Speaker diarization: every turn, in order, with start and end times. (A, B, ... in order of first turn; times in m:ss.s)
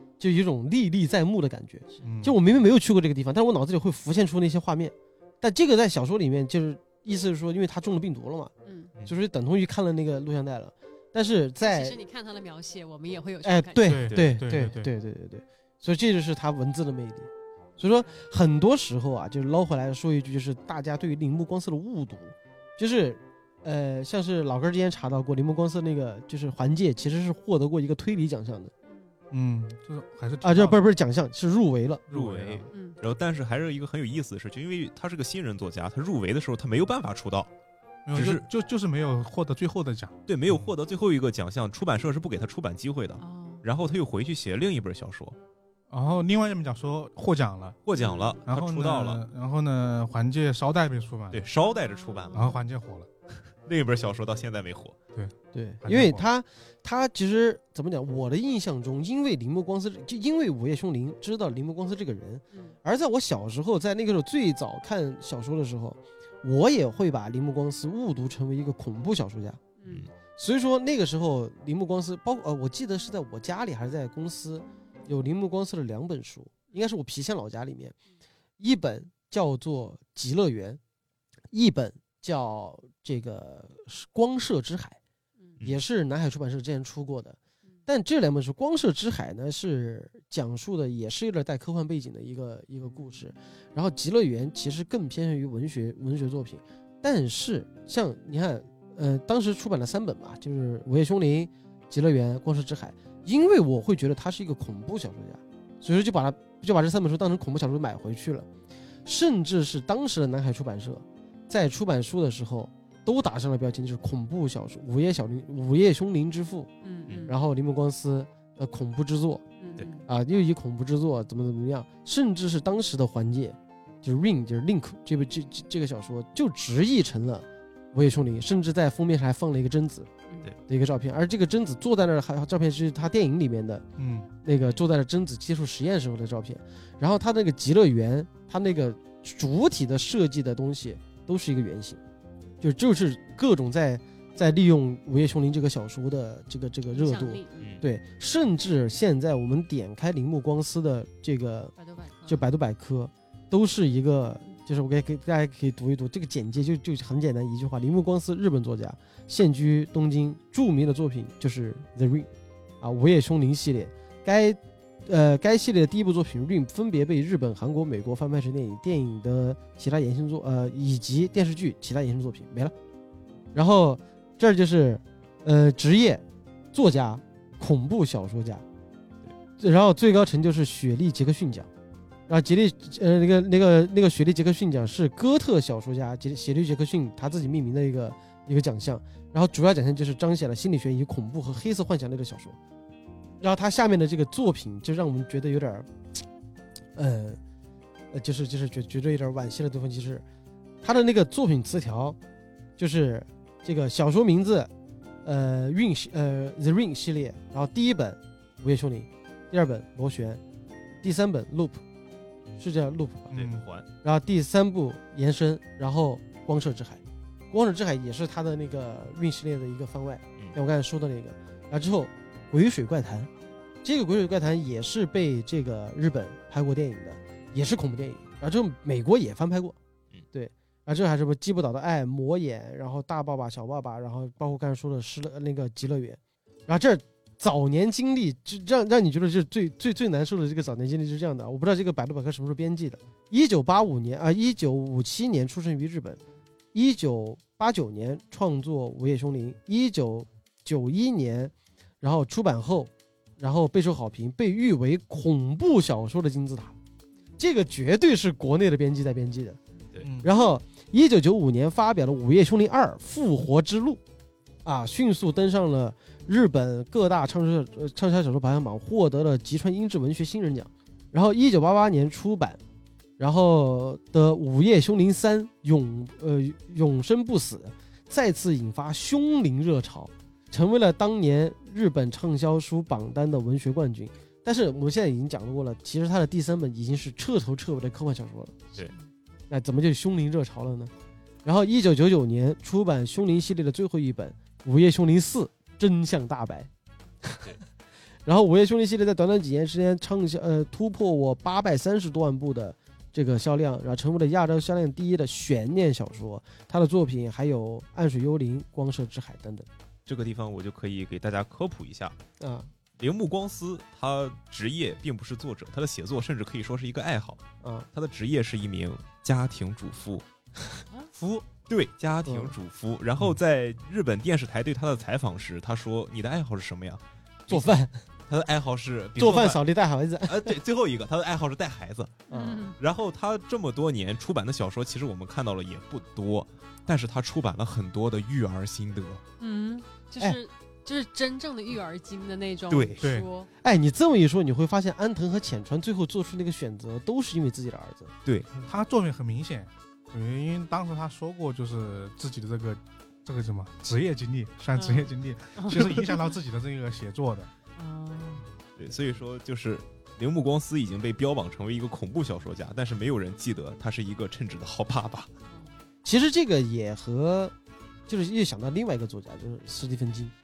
0:00.2-0:08.5 A
0:01.9-0:02.1 B
0:02.0-0:02.4 C
0:08.6-0:08.9 B
0:09.0-0:12.0 A
0:11.6-0:14.0 B
0:13.4-0:28.7 A
0:13.8-0:14.9 C
0:14.1-0:14.4 D
0:29.3-0:30.8 C
0:30.4-0:32.0 A
0:32.1-0:32.7 C
0:32.1-0:37.5 D
0:32.7-0:33.0 B
0:38.1-0:40.7 C
0:38.1-0:38.4 D
0:40.3-0:45.4 D
0:43.2-0:43.6 B
0:45.9-0:47.8 C
0:47.8-0:49.2 D
0:48.0-0:48.4 B
0:48.4-0:51.4 C
0:51.3-0:52.5 D
0:51.6-0:52.6 B
0:52.3-0:53.1 C
0:53.6-0:55.0 D
0:55.1-0:56.3 C
0:55.5-1:09.6 A
1:09.8-1:10.1 B
1:10.4-1:17.9 A
1:18.6-1:20.8 A
1:21.5-1:25.0 A
1:25.6-1:48.5 A
1:49.0-1:56.7 A
1:56.8-1:57.4 B
1:57.2-1:59.4 A
1:59.6-2:00.1 B
2:00.1-2:10.1 A
2:10.7-2:13.8 A
2:14.0-2:14.3 C
2:14.4-2:22.0 A
2:22.6-2:31.7 A
2:26.9-2:27.8 B
2:27.6-2:27.8 D
2:31.8-2:32.4 B
2:32.3-2:42.3 A
2:42.8-2:52.7 A
2:53.5-2:58.6 A
2:59.6-3:01.7 A
3:02.3-3:12.6 A
3:13.4-3:15.9 A
3:16.9-3:17.4 A
3:18.1-3:20.2 A
3:20.8-3:22.2 A
3:22.8-3:24.7 A
3:25.2-3:30.4 A
3:31.0-3:31.8 A
3:32.6-3:33.3 A
3:33.3-3:33.6 C
3:33.3-3:33.9 D
3:34.0-3:43.3 A
3:43.8-3:49.8 A
3:50.3-4:06.2 A
4:06.7-4:16.8 A
4:17.4-4:19.6 A
4:20.0-4:20.3 C
4:20.2-4:24.0 A
4:24.6-4:32.6 A
4:33.2-4:48.6 A
4:48.7-4:49.1 B
4:49.5-4:50.9 A
4:51.4-4:56.7 A
4:57.2-4:57.5 A
4:58.2-5:09.7 A
5:10.1-5:12.2 D
5:12.4-5:12.7 A
5:13.0-5:20.2 D
5:21.1-5:21.4 C
5:21.7-5:27.7 D
5:22.2-5:22.6 A
5:27.5-5:28.0 A
5:28.3-5:29.6 D
5:29.2-5:30.6 A
5:30.2-5:32.2 D
5:32.3-5:32.7 A
5:32.3-5:32.8 B
5:32.8-5:39.2 D
5:39.4-5:43.5 B
5:42.7-5:43.0 D
5:43.0-5:43.2 C
5:43.6-5:48.1 A
5:48.6-5:57.5 C
5:54.8-5:56.1 B
5:57.8-5:58.5 B
5:58.8-6:05.3 D
6:05.5-6:05.7 B
6:06.0-6:07.5 A
6:08.1-6:10.3 A